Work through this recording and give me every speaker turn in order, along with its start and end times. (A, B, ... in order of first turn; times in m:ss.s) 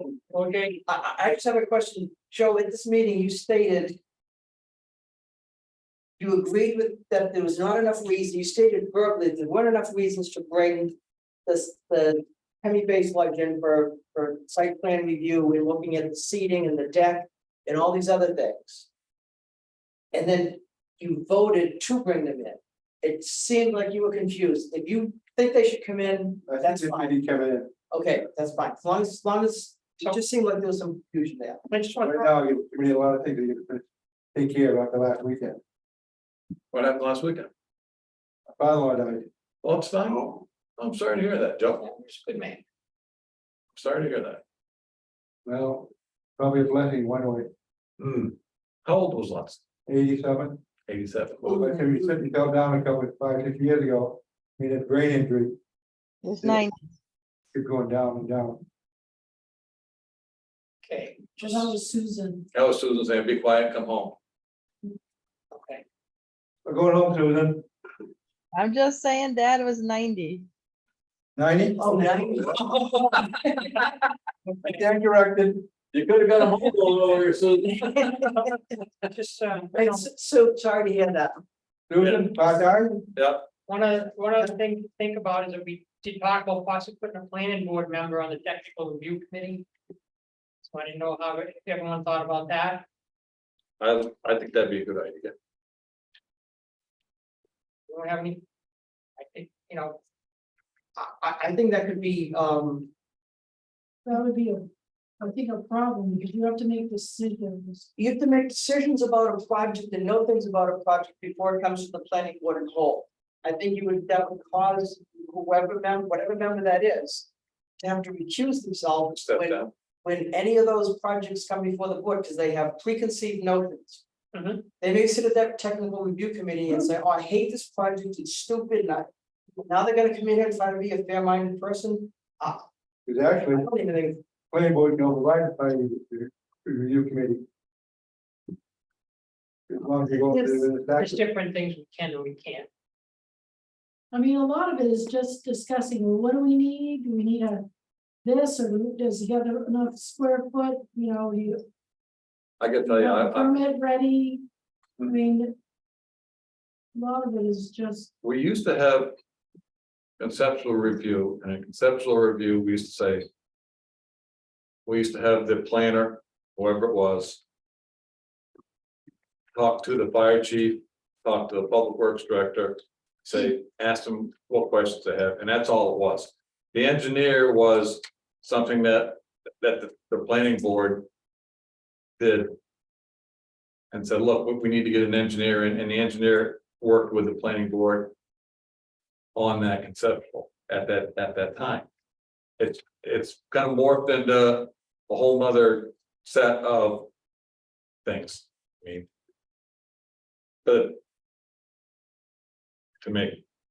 0:00.3-0:00.8 A
0:00.9-0:04.0 B
0:06.2-0:10.9 B
0:11.4-0:18.9 B
0:20.1-0:27.2 B
0:26.4-0:27.7 C
0:27.9-0:31.6 B
0:31.7-0:32.3 A
0:32.0-0:35.6 C
0:36.7-0:37.5 D
0:38.6-0:39.3 C
0:39.6-0:41.8 D
0:41.8-0:42.6 A
0:43.7-0:44.4 D
0:45.4-0:47.5 C
0:48.0-0:49.6 D
0:49.8-0:50.6 C
0:50.9-0:51.6 D
0:51.4-0:55.6 C
0:56.2-0:56.8 E
0:56.4-0:56.6 C
0:57.5-0:58.6 C
1:00.8-1:01.7 A
1:01.4-1:02.5 F
1:02.5-1:04.2 D
1:05.5-1:05.8 A
1:06.6-1:07.6 C
1:08.5-1:10.5 E
1:11.4-1:12.5 C
1:11.8-1:13.0 B
1:14.5-1:15.7 C
1:15.9-1:18.2 D
1:18.2-1:20.0 A
1:19.7-1:21.3 B
1:21.9-1:23.1 C
1:22.0-1:22.3 D
1:23.1-1:23.5 D
1:23.7-1:29.6 A
1:30.6-1:32.8 A
1:33.8-1:35.3 D
1:37.9-1:38.4 A
1:39.2-1:40.0 A
1:41.0-1:42.9 B
1:44.0-1:44.7 F
1:45.2-1:47.9 F
1:48.0-1:57.3 B
1:57.8-2:04.0 B
1:59.2-1:59.7 D
2:04.3-2:04.6 A
2:04.8-2:09.1 B
2:09.6-2:12.6 B
2:13.0-2:13.7 C
2:13.5-2:14.2 B
2:14.5-2:17.4 C
2:19.7-2:21.2 C
2:20.3-2:22.7 A
2:24.1-2:27.6 F
2:28.2-2:31.6 F
2:32.6-2:33.6 D
2:32.8-2:34.4 F
2:35.0-2:35.5 F
2:36.9-2:38.1 F
2:38.2-2:39.2 D
2:40.2-2:43.3 D
2:44.8-2:47.4 D
2:49.6-3:01.1 D
3:02.2-3:02.5 D
3:03.9-3:08.1 D
3:09.3-3:11.9 D
3:12.6-3:17.1 D
3:18.0-3:19.1 D
3:20.6-3:21.0 D
3:23.0-3:23.4 D